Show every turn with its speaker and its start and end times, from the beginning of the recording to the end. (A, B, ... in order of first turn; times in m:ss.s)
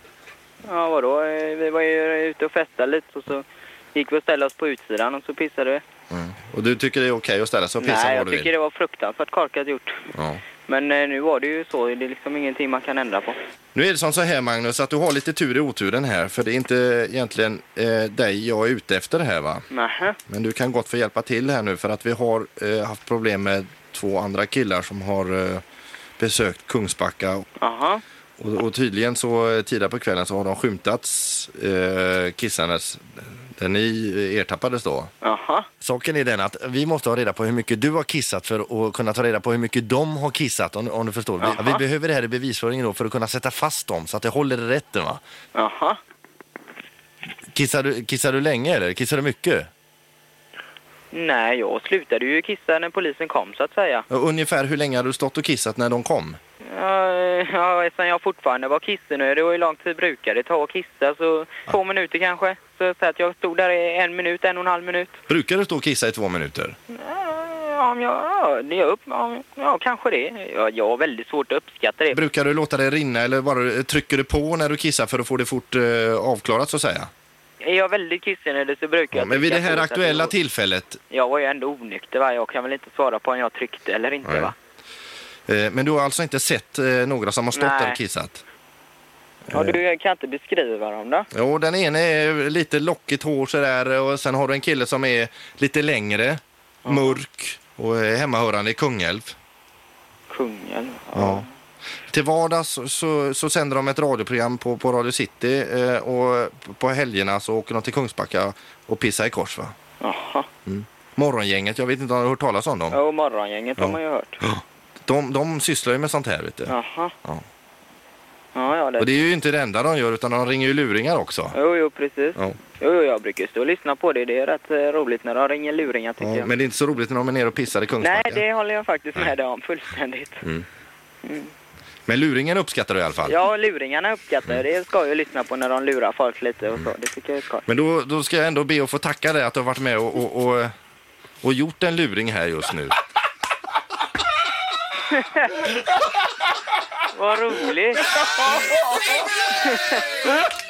0:00.6-0:05.8 A
0:06.1-0:08.5 B
0:07.8-0:10.0 A
0:10.1-0:10.4 B
0:10.7-0:13.4 A
0:13.7-0:19.6 B
0:19.7-0:20.2 A
0:20.3-0:25.6 B
0:26.2-0:27.4 B
0:27.6-0:28.0 A
0:28.4-0:35.1 B
0:35.2-0:35.7 A
0:35.8-0:45.2 B
0:41.4-0:41.8 A
0:45.5-0:46.0 A
0:47.5-0:49.7 B
0:51.1-0:54.0 A
0:54.1-0:56.4 B
0:56.7-1:05.2 A
1:05.3-1:06.8 B
1:06.9-1:12.2 A
1:12.1-1:17.1 B
1:17.6-1:20.3 A
1:19.1-1:21.0 B
1:21.1-1:24.5 A
1:25.5-1:28.4 B
1:27.5-1:28.0 A
1:29.5-1:29.8 B
1:29.5-1:31.3 A
1:31.3-1:39.3 B
1:36.8-1:37.2 A
1:40.3-1:41.5 A
1:41.1-1:41.4 B
1:42.1-1:49.7 B
1:50.0-1:50.5 A
1:50.6-1:53.0 B
1:52.9-1:54.4 A
1:53.8-1:57.4 B
1:56.7-1:57.1 A
1:58.6-1:59.1 A
1:59.0-2:01.5 B
2:01.5-2:06.5 A
2:06.2-2:08.4 B
2:08.0-2:10.4 A
2:11.2-2:11.5 A
2:12.1-2:13.3 B
2:13.3-2:17.6 A
2:17.7-2:20.7 B
2:21.4-2:22.9 B
2:25.2-2:25.5 A
2:27.1-2:28.4 A
2:29.5-2:30.3 A